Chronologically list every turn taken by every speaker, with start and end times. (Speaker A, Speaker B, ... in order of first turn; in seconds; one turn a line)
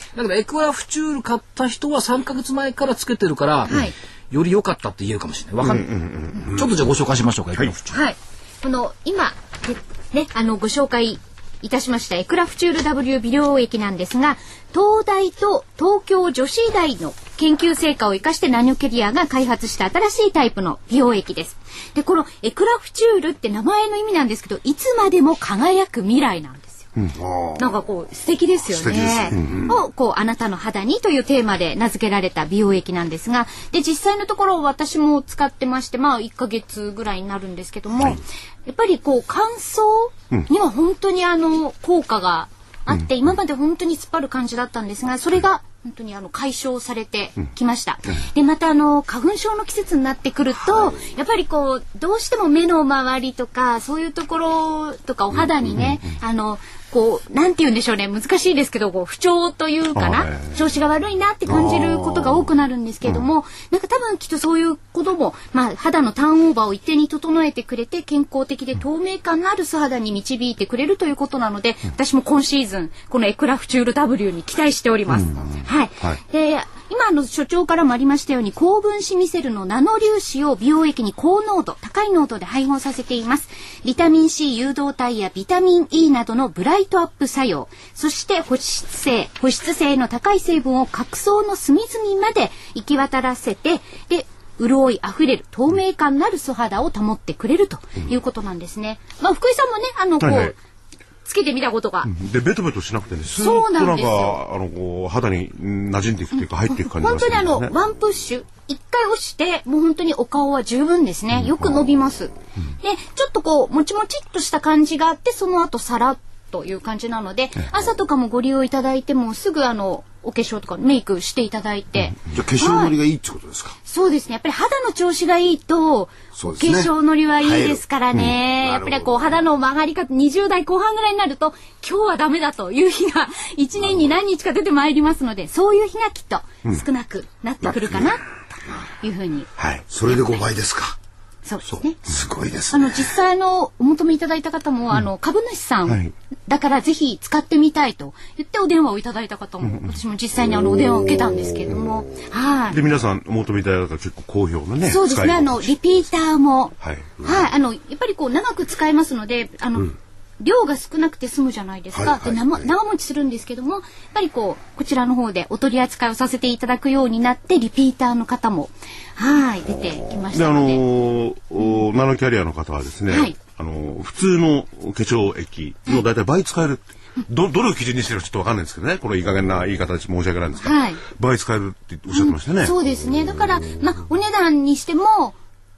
Speaker A: 0.1-5.9
Speaker B: 3.7-3.9
Speaker C: 5.6-6.7
Speaker A: 6.4-8.0
Speaker B: 7.9-26.9
Speaker D: 27.1-27.7
Speaker B: 27.6-100.6
Speaker D: 28.7-29.8
Speaker C: 60.0-60.6
Speaker D: 61.7-62.4
Speaker C: 100.2-100.5
Speaker B: 101.3-102.1
Speaker C: 102.0-107.7
Speaker B: 103.3-104.4
Speaker B: 106.7-123.0
Speaker D: 122.3-123.8
Speaker B: 123.9-139.5
Speaker D: 126.4-127.8
Speaker D: 128.6-129.3
Speaker C: 139.6-139.8
Speaker D: 139.9-141.0
Speaker B: 141.4-142.0
Speaker D: 142.0-143.1
Speaker B: 142.7-152.8
Speaker C: 145.9-146.1
Speaker D: 150.6-152.2
Speaker C: 152.7-155.8
Speaker B: 154.8-170.8
Speaker C: 156.8-157.1
Speaker D: 161.9-162.7
Speaker C: 170.3-182.8
Speaker B: 173.1-173.3
Speaker B: 180.6-181.0
Speaker B: 182.1-185.4